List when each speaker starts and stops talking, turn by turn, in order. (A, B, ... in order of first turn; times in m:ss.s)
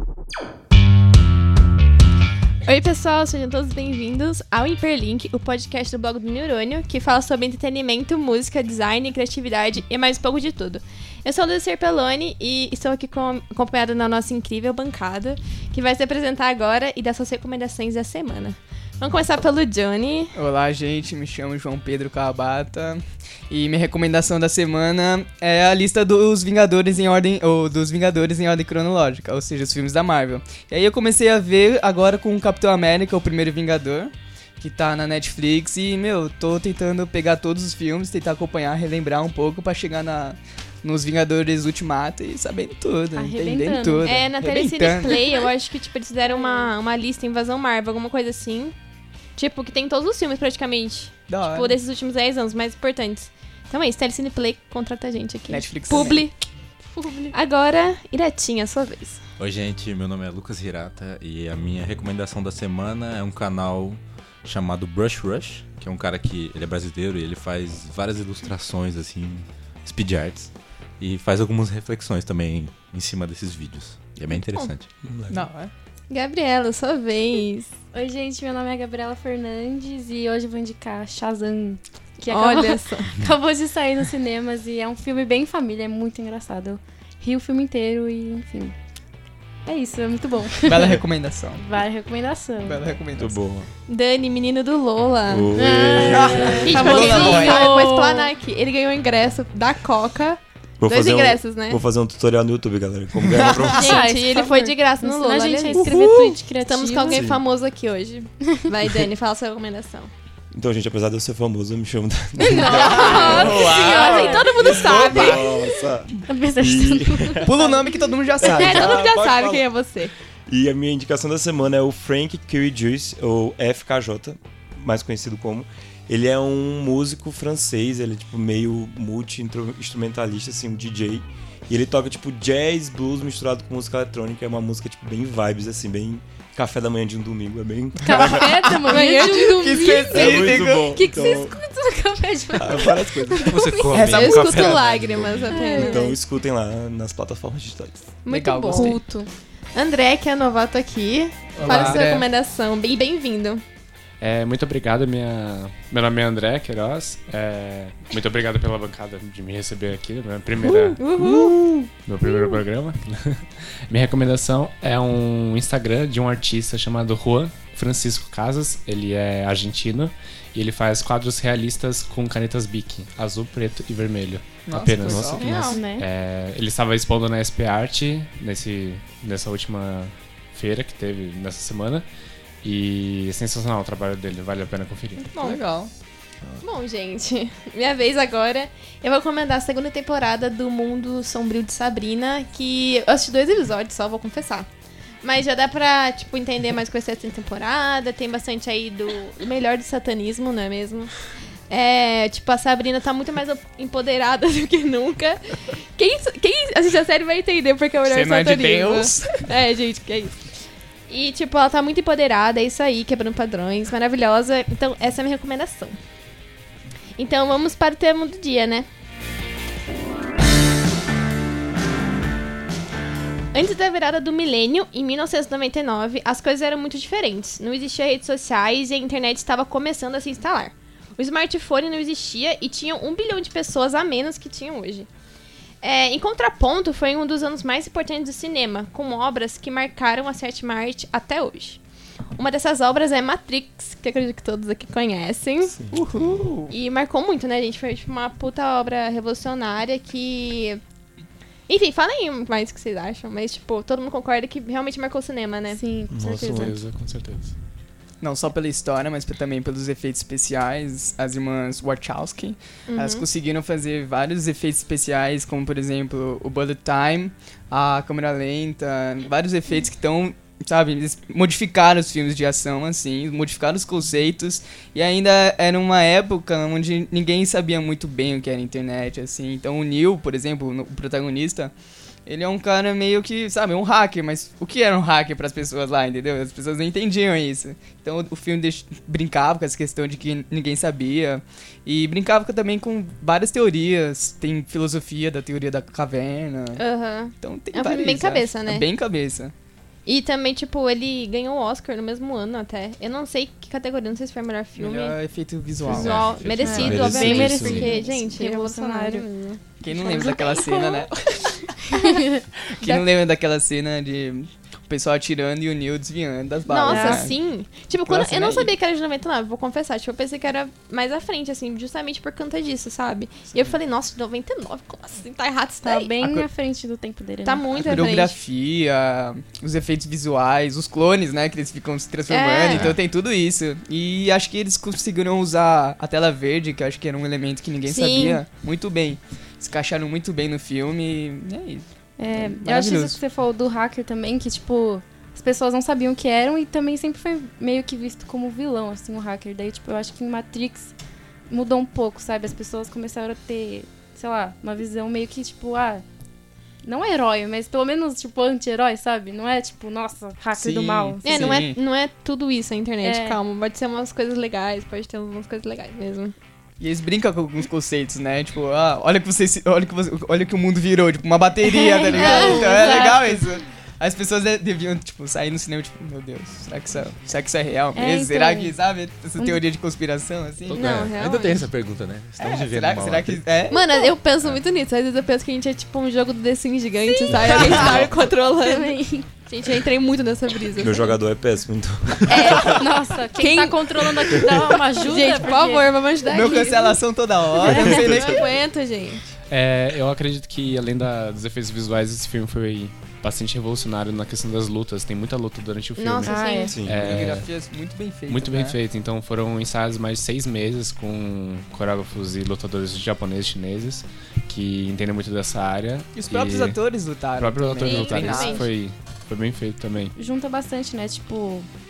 0:02.6-0:20.3 A
0:20.3-0:45.3 B
0:43.1-0:44.1 C
0:44.0-0:48.7 A
0:46.3-0:46.7 C
0:49.4-0:56.3 A
0:51.3-0:51.8 B
0:55.5-0:56.3 B
0:57.0-0:57.3 C
0:57.3-0:59.2 A
0:59.4-1:14.9 D
1:14.3-1:14.7 A
1:15.0-1:15.4 E
1:15.3-1:15.7 B
1:16.1-1:17.7 A
1:17.9-1:28.7 C
1:22.3-1:23.1 A
1:29.6-1:31.0 C
1:30.6-1:31.6 B
1:31.6-1:32.8 C
1:32.6-1:33.4 B
1:33.2-1:33.7 E
1:33.9-1:35.5 A
1:35.3-1:37.2 E
1:35.6-1:38.3 C
1:36.1-1:37.8 B
1:36.5-1:41.8 A
1:40.8-1:43.8 E
1:43.3-1:43.8 B
1:43.7-1:50.1 A
1:43.7-1:47.2 C
1:47.1-1:47.4 E
1:50.5-1:57.6 E
1:52.4-1:55.4 A
1:52.4-1:54.7 C
1:52.7-1:55.4 B
1:56.2-1:57.9 C
1:57.4-1:59.0 B
1:58.4-1:59.6 E
1:58.4-2:00.1 A
2:00.5-2:18.7 E
2:18.0-2:23.9 C
2:18.1-2:20.9 B
2:18.9-2:20.0 A
2:20.1-2:21.6 E
2:22.6-2:23.7 E
2:23.4-2:25.6 D
2:23.9-2:24.8 B
2:23.9-2:26.1 A
2:25.5-2:26.2 C
2:25.7-2:28.1 E
2:28.2-2:29.0 A
2:28.3-2:29.0 B
2:28.7-2:29.3 C
2:29.7-2:33.6 A
2:31.5-2:32.3 B
2:31.7-2:32.0 F
2:34.2-2:41.0 F
2:40.7-2:41.6 A
2:41.2-2:41.9 B
2:42.0-3:02.0 F
2:42.2-2:42.6 A
2:54.6-2:55.8 B
2:55.0-2:55.5 E
2:55.4-2:55.8 A
2:55.7-2:56.0 C
3:02.6-3:05.3 F
3:05.3-3:05.7 A
3:05.4-3:05.9 B
3:06.6-3:14.7 A
3:15.2-3:21.2 A
3:21.7-3:30.4 A
3:28.0-3:29.5 B
3:31.1-3:36.0 A
3:37.2-3:38.9 A
3:43.5-3:55.1 A
3:55.8-4:01.8 A
4:02.4-4:05.8 A
4:05.7-4:06.2 E
4:05.9-4:06.7 B
4:06.7-4:10.8 A
4:11.7-4:15.8 A
4:15.7-4:16.7 C
4:16.1-4:16.8 E
4:16.4-4:17.5 F
4:18.2-4:41.7 B
4:22.9-4:23.2 A
4:42.2-4:56.8 B
4:56.8-4:58.8 A
4:57.4-4:59.5 B
5:00.0-5:05.2 A
5:04.7-5:07.6 B
5:05.8-5:07.8 D
5:05.8-5:09.6 A
5:06.6-5:07.9 E
5:06.6-5:09.2 C
5:09.8-5:11.5 B
5:09.9-5:11.1 C
5:11.9-5:12.4 C
5:12.7-5:17.4 B
5:12.8-5:13.1 A
5:16.7-5:26.1 A
5:16.9-5:17.2 C
5:18.0-5:18.7 B
5:25.8-5:28.1 C
5:27.4-5:28.4 A
5:27.7-5:43.2 B
5:32.3-5:32.9 A
5:37.8-5:38.4 A
5:42.2-5:50.9 C
5:51.5-5:56.0 C
5:56.8-6:01.6 C
6:00.6-6:01.8 B
6:01.2-6:06.3 A
6:03.0-6:03.4 C
6:06.8-6:20.9 B
6:11.8-6:13.3 C
6:12.0-6:13.2 A
6:17.9-6:18.8 C
6:19.4-6:19.6 C
6:20.7-6:23.7 D
6:20.7-6:21.7 A
6:22.4-6:23.8 B
6:23.7-6:31.1 A
6:27.4-6:28.0 B
6:27.5-6:28.2 D
6:28.4-6:29.3 C
6:30.8-6:32.8 E
6:32.3-6:37.0 A
6:32.6-6:35.9 C
6:36.2-6:38.5 B
6:37.5-6:39.2 A
6:37.6-6:38.0 C
6:39.5-6:47.5 F
6:46.0-6:46.8 A
6:46.2-6:46.7 C
6:46.7-6:47.3 E
6:47.0-6:48.8 B
6:47.1-6:47.4 D
6:48.3-6:56.8 F
6:56.1-6:58.7 B
6:57.3-7:00.1 F
6:57.8-6:58.7 A
7:00.2-7:01.7 C